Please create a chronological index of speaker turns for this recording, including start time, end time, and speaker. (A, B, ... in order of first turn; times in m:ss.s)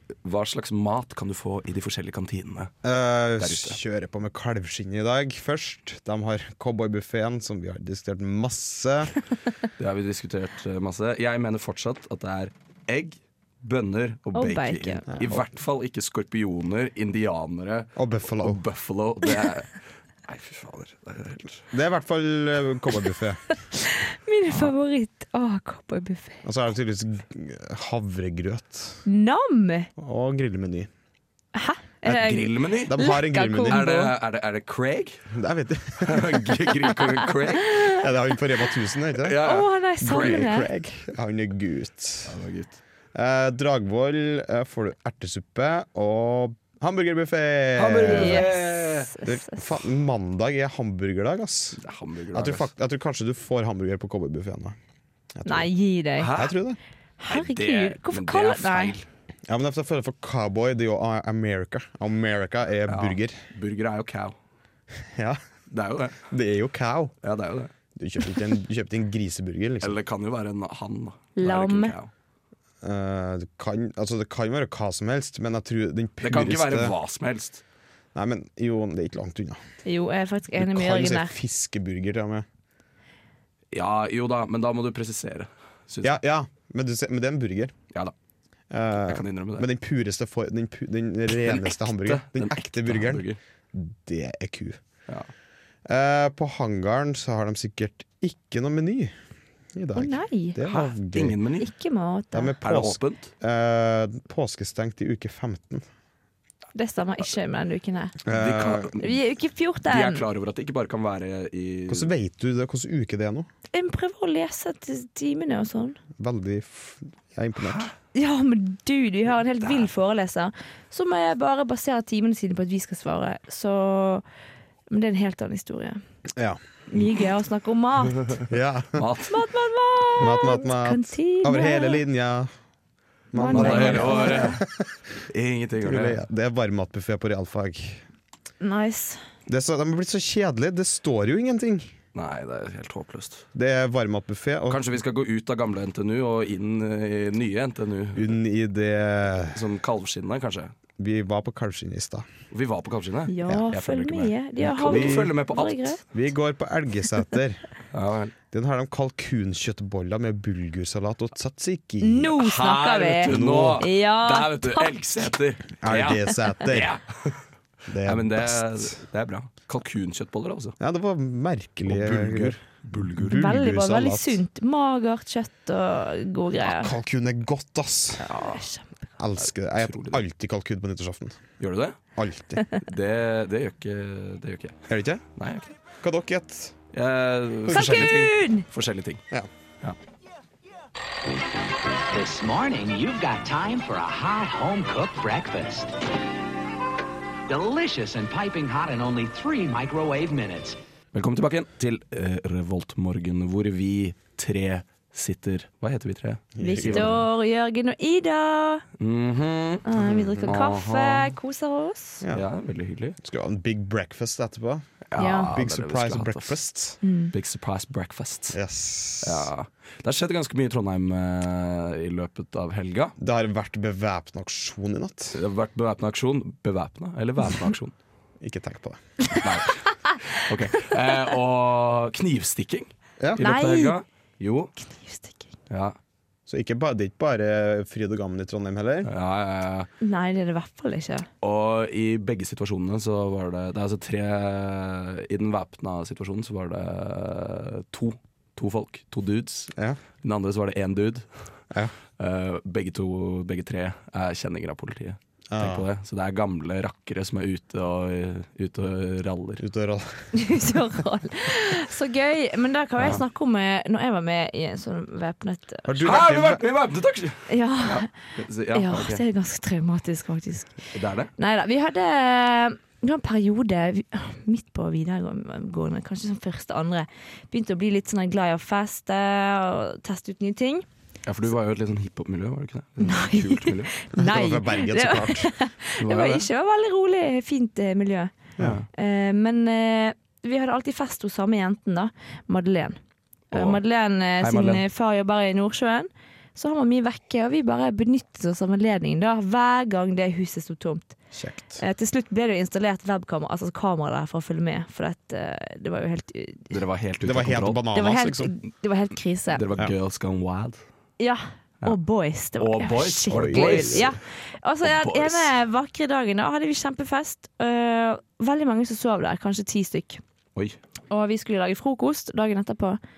0:00.2-0:02.7 A
0:02.8-0:09.1 B
0:03.4-0:03.8 A
0:09.8-0:21.6 A
0:14.3-0:15.0 C
0:15.1-0:15.4 B
0:18.0-0:18.6 B
0:21.7-0:23.4 B
0:23.7-0:26.4 C
0:26.4-0:29.0 B
0:29.0-0:29.9 C
0:30.0-0:30.9 B
0:31.5-0:34.1 C
0:32.0-0:33.8 B
0:32.1-0:33.0 A
0:33.6-0:35.2 A
0:35.3-0:36.7 B
0:36.0-0:37.8 A
0:37.8-0:39.4 B
0:39.2-0:40.5 A
0:39.4-0:40.7 C
0:40.0-0:42.3 B
0:42.2-0:42.8 A
0:43.1-0:48.5 B
0:47.7-0:49.1 A
0:48.1-0:49.7 C
0:49.2-0:51.8 B
0:51.8-0:52.7 A
0:52.3-0:54.8 B
0:55.3-0:55.7 B
0:55.4-0:56.3 C
0:56.2-0:56.5 A
0:56.3-0:56.8 B
0:57.2-0:59.0 C
0:57.3-0:59.0 A
0:59.5-1:03.4 B
1:02.9-1:04.3 A
1:05.1-1:05.4 B
1:05.7-1:06.2 A
1:06.3-1:07.1 B
1:07.2-1:07.7 A
1:08.0-1:10.0 B
1:09.8-1:12.1 A
1:11.4-1:11.9 C
1:12.8-1:16.9 B
1:16.2-1:17.6 A
1:18.1-1:19.6 B
1:19.8-1:21.3 C
1:20.6-1:22.4 B
1:23.7-1:26.2 A
1:26.0-1:27.7 B
1:28.7-1:34.8 B
1:29.0-1:29.7 A
1:31.4-1:33.4 A
1:35.9-1:39.1 B
1:39.7-1:41.4 B
1:39.9-1:40.6 C
1:40.6-1:41.7 A
1:41.6-1:42.6 C
1:42.3-1:45.8 B
1:42.6-1:43.3 A
1:46.7-1:48.2 C
1:48.2-1:49.0 B
1:48.3-1:49.2 A
1:49.0-1:50.2 C
1:49.8-1:52.1 A
1:51.9-1:53.5 B
1:53.7-1:56.0 C
1:56.2-1:57.9 B
1:57.6-1:57.9 A
1:58.1-2:04.2 C
2:04.9-2:06.0 C
2:06.3-2:06.6 B
2:06.9-2:08.4 C
2:08.5-2:09.1 B
2:09.0-2:09.4 A
2:09.3-2:12.0 C
2:10.2-2:12.5 B
2:13.3-2:14.9 B
2:13.3-2:14.6 C
2:13.5-2:14.6 A
2:15.3-2:16.2 A
2:15.8-2:18.0 B
2:18.6-2:19.2 C
2:19.5-2:21.9 B
2:22.1-2:23.4 A
2:23.5-2:24.8 B
2:24.7-2:28.4 A
2:28.2-2:29.6 B
2:29.5-2:30.7 A
2:31.0-2:32.3 B
2:32.5-2:36.0 A
2:33.3-2:36.0 C
2:34.8-2:35.3 B
2:36.1-2:37.6 B
2:37.9-2:38.3 A
2:38.5-2:42.4 B
2:42.0-2:44.9 C
2:42.4-2:47.4 A
2:43.2-2:43.8 B
2:45.8-2:47.0 B
2:47.9-2:48.9 B
2:48.0-2:50.8 A
2:50.8-2:54.4 B
2:51.8-2:53.5 A
2:53.2-2:56.9 C
2:56.6-2:58.3 B
2:58.2-2:59.0 C
2:58.3-2:58.6 A
2:59.2-3:01.4 B
2:59.4-3:00.2 A
3:01.6-3:02.0 A
3:02.2-3:02.6 B
3:02.8-3:04.8 A
3:04.9-3:05.2 B
3:05.4-3:05.7 A
3:06.0-3:06.8 B
3:06.9-3:09.2 A
3:07.6-3:08.2 B
3:07.7-3:08.7 C
3:12.1-3:15.9 D
3:17.5-3:20.8 D
3:21.1-3:27.2 A
3:26.5-3:27.2 B
3:26.6-3:28.8 C
3:29.0-3:29.8 A
3:29.8-3:32.2 C
3:29.9-3:30.5 B
3:30.4-3:31.3 A
3:32.2-3:32.4 B
3:32.3-3:33.2 A
3:33.2-3:34.9 B
3:35.1-3:36.6 A
3:35.2-3:35.5 C
3:35.5-3:37.0 B
3:37.0-3:37.3 C
3:37.3-3:38.6 A
3:38.5-3:39.5 B
3:39.2-3:43.1 A
3:43.2-3:45.4 B
3:45.3-3:47.9 A
3:48.4-3:49.4 B
3:49.3-3:54.7 A
3:53.4-3:54.0 C
3:54.8-3:55.5 C
3:55.7-3:56.0 A
3:56.5-3:59.1 B
3:59.0-3:59.9 A
4:00.0-4:01.3 C
4:01.4-4:11.2 A
4:12.2-4:19.6 A
4:15.5-4:15.9 B
4:19.6-4:20.4 B
4:20.3-4:26.0 C
4:25.8-4:26.6 B
4:26.0-4:29.2 A
4:27.5-4:28.1 C
4:28.7-4:30.8 C
4:30.9-4:31.3 A
4:31.4-4:40.8 C
4:41.2-4:43.9 A
4:43.0-4:48.3 C
4:44.1-4:45.5 B
4:46.0-4:46.4 A
4:48.6-4:48.8 A
4:48.9-4:53.0 C
4:53.5-4:53.8 A
4:53.5-5:01.1 C
4:54.4-4:54.8 A
5:01.3-5:01.8 B
5:01.8-5:06.8 C
5:06.7-5:07.8 A
5:07.2-5:08.5 B
5:07.9-5:09.6 C
5:09.5-5:10.8 A
5:11.2-5:20.2 C
5:12.6-5:14.2 A
5:13.3-5:14.1 B
5:14.8-5:15.5 A
5:21.1-5:23.0 C